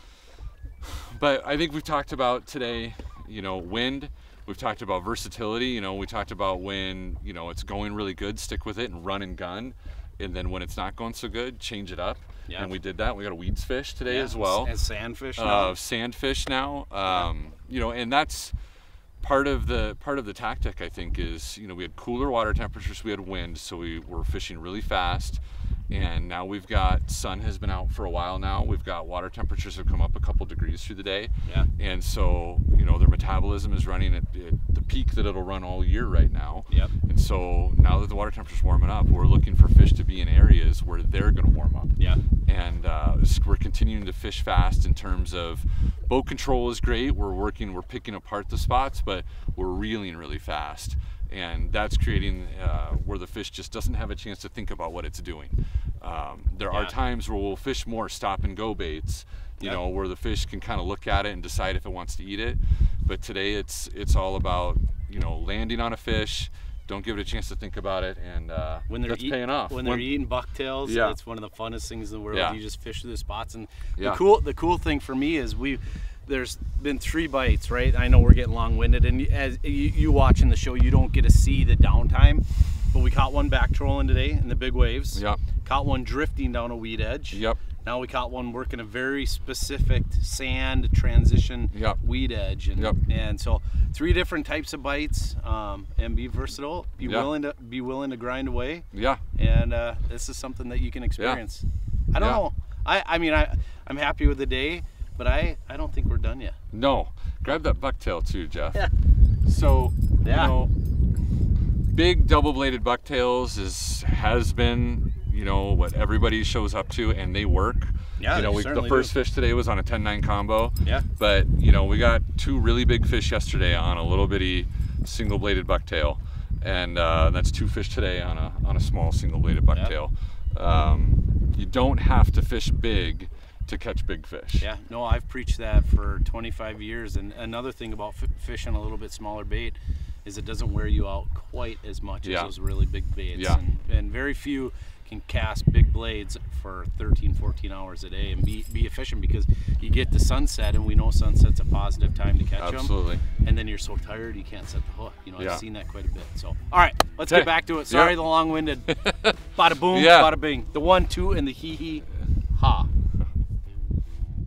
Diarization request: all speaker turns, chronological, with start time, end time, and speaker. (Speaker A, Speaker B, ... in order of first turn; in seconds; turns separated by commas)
Speaker A: 0.8-14.7, Speaker B: 12.5-12.7, Speaker B: 14.1-15.8, Speaker A: 15.4-18.5, Speaker A: 19.2-41.9, Speaker A: 42.5-70.1, Speaker B: 56.7-57.0, Speaker B: 68.9-106.6, Speaker A: 70.8-71.2, Speaker A: 72.3-72.6, Speaker A: 85.2-85.4, Speaker A: 87.3-87.6, Speaker A: 91.7-92.0, Speaker A: 97.0-97.3, Speaker A: 98.9-99.2, Speaker A: 102.2-102.4, Speaker A: 106.7-108.8, Speaker A: 109.5-110.7, Speaker B: 110.2-110.6, Speaker A: 111.9-134.7, Speaker B: 118.2-119.1, Speaker B: 134.6-152.9, Speaker A: 142.2-142.5, Speaker A: 143.3-143.6, Speaker A: 152.6-153.2, Speaker B: 153.4-159.0, Speaker A: 155.4-155.6, Speaker A: 157.3-158.3, Speaker A: 158.9-160.3, Speaker B: 159.6-162.1, Speaker B: 162.6-162.9